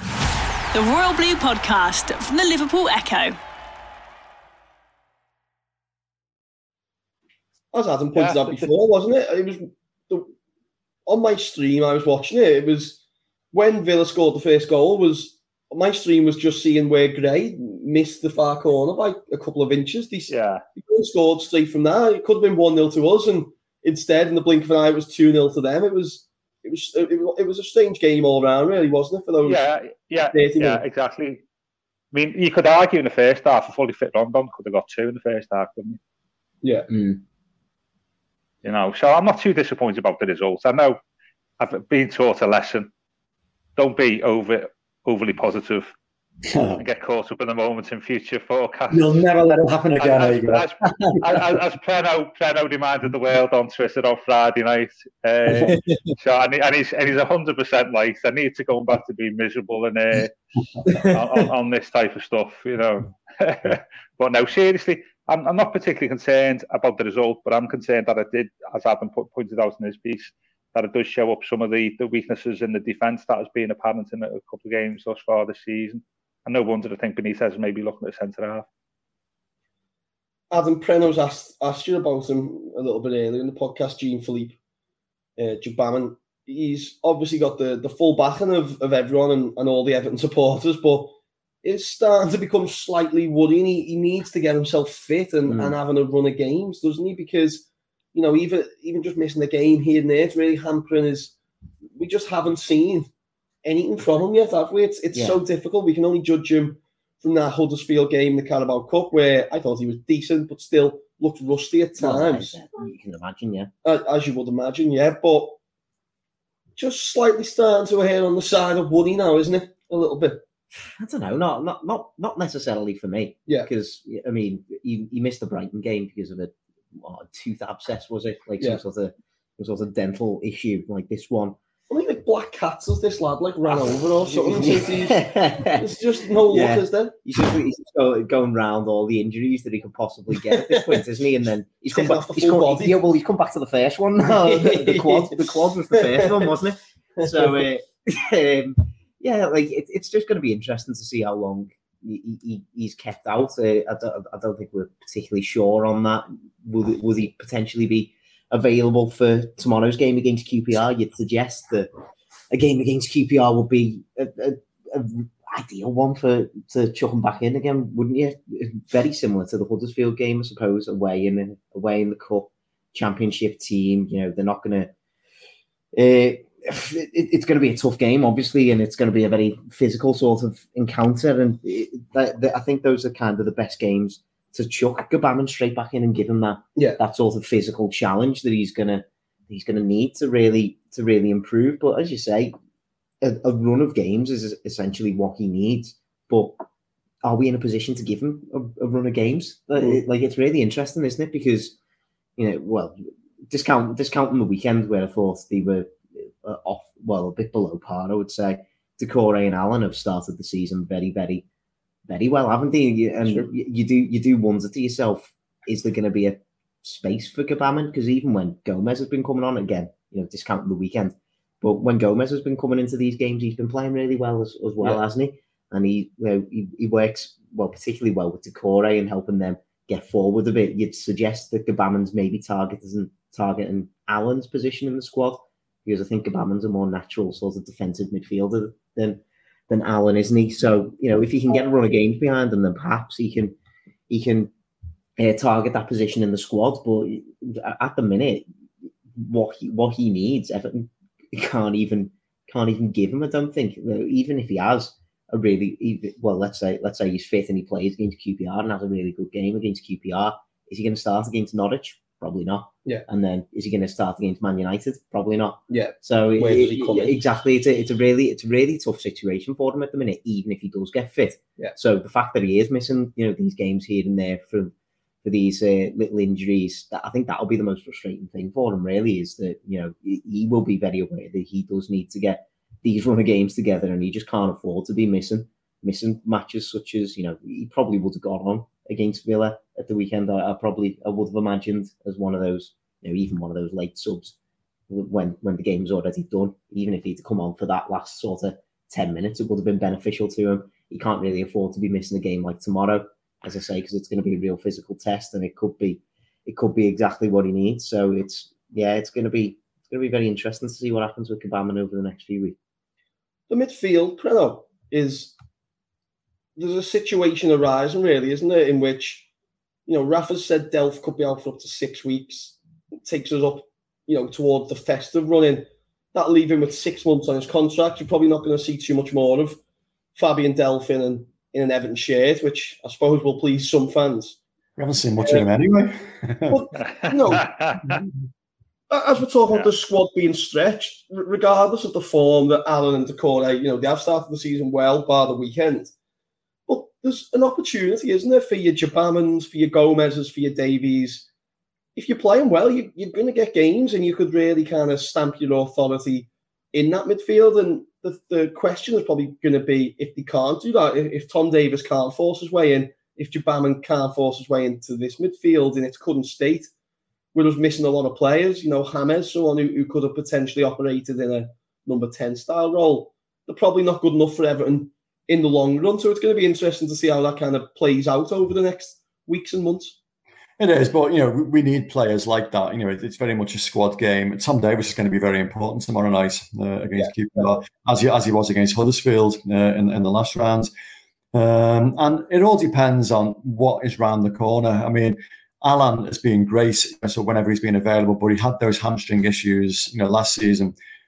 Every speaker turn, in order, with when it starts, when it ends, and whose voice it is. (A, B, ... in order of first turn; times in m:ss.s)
0:00.7-0:03.4 A
0:07.7-0:10.3 B
0:08.1-0:08.7 C
0:11.1-0:13.0 B
0:13.5-0:29.7 B
0:20.3-0:20.6 C
0:29.5-0:31.4 C
0:30.2-0:30.8 B
0:32.1-0:36.0 C
0:36.6-0:36.9 B
0:36.9-0:37.2 D
0:38.6-0:41.0 C
0:41.6-0:42.9 C
0:43.8-0:45.9 C
0:46.4-0:46.8 E
0:46.8-0:49.2 C
0:48.9-0:50.7 E
0:50.0-1:00.4 C
1:00.9-1:18.7 C
1:20.5-1:24.6 B
1:25.4-1:41.4 B
1:35.5-1:35.8 D
1:42.0-1:43.1 B
1:43.6-1:52.5 B
1:45.1-1:45.4 D
1:52.0-1:53.7 D
1:53.8-1:55.6 B
1:56.8-2:00.4 B
2:01.0-2:11.6 D
2:11.9-2:17.2 B
2:13.7-2:41.9 D
2:20.5-2:21.0 B
2:21.9-2:23.0 B
2:24.3-2:25.4 B
2:26.0-2:26.5 B
2:42.5-2:54.9 D
2:55.9-3:12.5 D
3:13.2-3:16.6 D
3:17.2-3:21.8 D
3:22.4-3:23.0 D
3:23.5-3:31.4 D
3:32.1-4:03.6 D
4:04.1-4:04.5 D
4:05.2-4:08.5 D
4:09.2-4:34.7 D
4:25.7-4:27.2 B
4:35.2-4:54.3 D
4:54.9-5:12.6 D
5:13.5-5:15.3 B
5:16.6-5:19.3 B
5:19.9-5:29.6 B
5:30.2-5:34.4 B
5:34.8-5:36.6 E
5:36.5-5:37.7 B
5:37.0-5:38.0 C
5:38.9-5:45.9 B
5:46.7-5:51.3 B
5:52.0-6:06.7 B
6:07.3-6:20.0 B
6:20.6-6:30.7 E
6:31.3-6:40.8 E